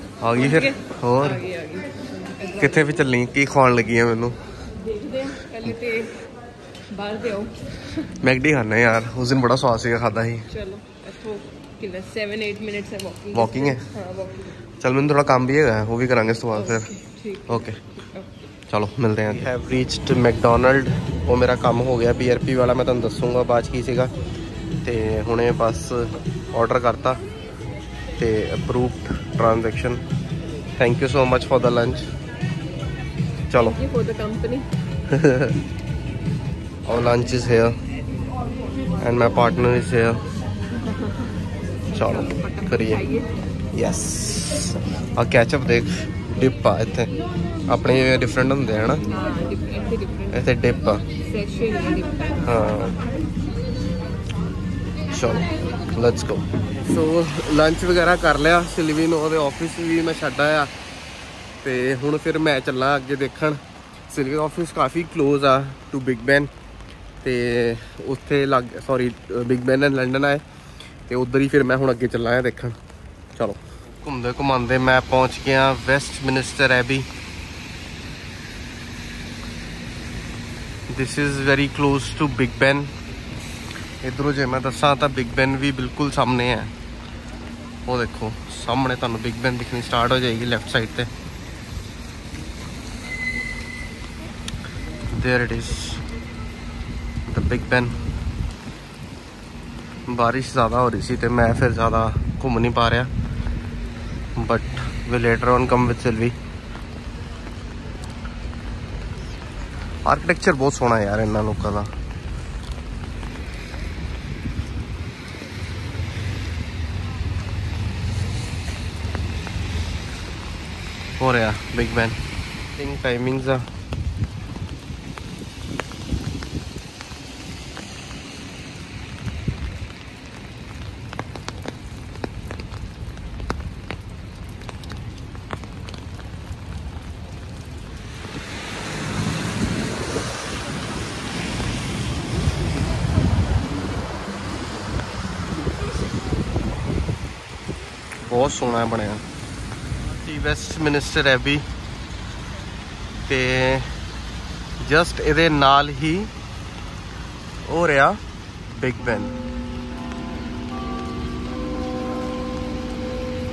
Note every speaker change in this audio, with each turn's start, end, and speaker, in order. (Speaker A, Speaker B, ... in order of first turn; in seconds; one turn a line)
Speaker A: 0.2-1.4
Speaker B: 0.4-2.7
Speaker A: 2.5-4.4
Speaker B: 4.9-6.2
Speaker B: 6.9-7.7
Speaker A: 8.1-10.5
Speaker B: 10.5-14.5
Speaker A: 13.3-13.9
Speaker A: 14.8-17.8
Speaker B: 16.9-17.5
Speaker A: 18.7-24.1
Speaker A: 24.8-27.2
Speaker A: 28.2-30.0
Speaker A: 30.8-32.1
Speaker A: 33.5-33.8
Speaker B: 33.8-34.7
Speaker A: 35.1-35.6
Speaker A: 36.9-37.8
Speaker A: 39.0-40.2
Speaker A: 41.9-43.0
Speaker B: 42.3-43.2
Speaker A: 43.7-47.1
Speaker A: 47.7-49.1
Speaker B: 49.1-50.3
Speaker A: 50.3-51.1
Speaker B: 51.2-52.4
Speaker A: 52.4-53.0
Speaker A: 55.1-60.7
Speaker A: 61.6-66.5
Speaker A: 67.2-70.4
Speaker A: 71.1-72.8
Speaker A: 73.3-77.1
Speaker A: 80.9-82.9
Speaker A: 84.0-86.7
Speaker A: 87.9-91.1
Speaker A: 95.1-96.0
Speaker A: 97.3-97.9
Speaker A: 100.1-103.1
Speaker A: 104.3-106.4
Speaker A: 110.0-111.9
Speaker A: 121.2-122.2
Speaker A: 122.7-123.7
Speaker A: 148.2-149.2
Speaker A: 150.2-151.7
Speaker A: 153.3-153.9
Speaker A: 154.8-156.3
Speaker A: 157.7-158.2
Speaker A: 158.7-159.3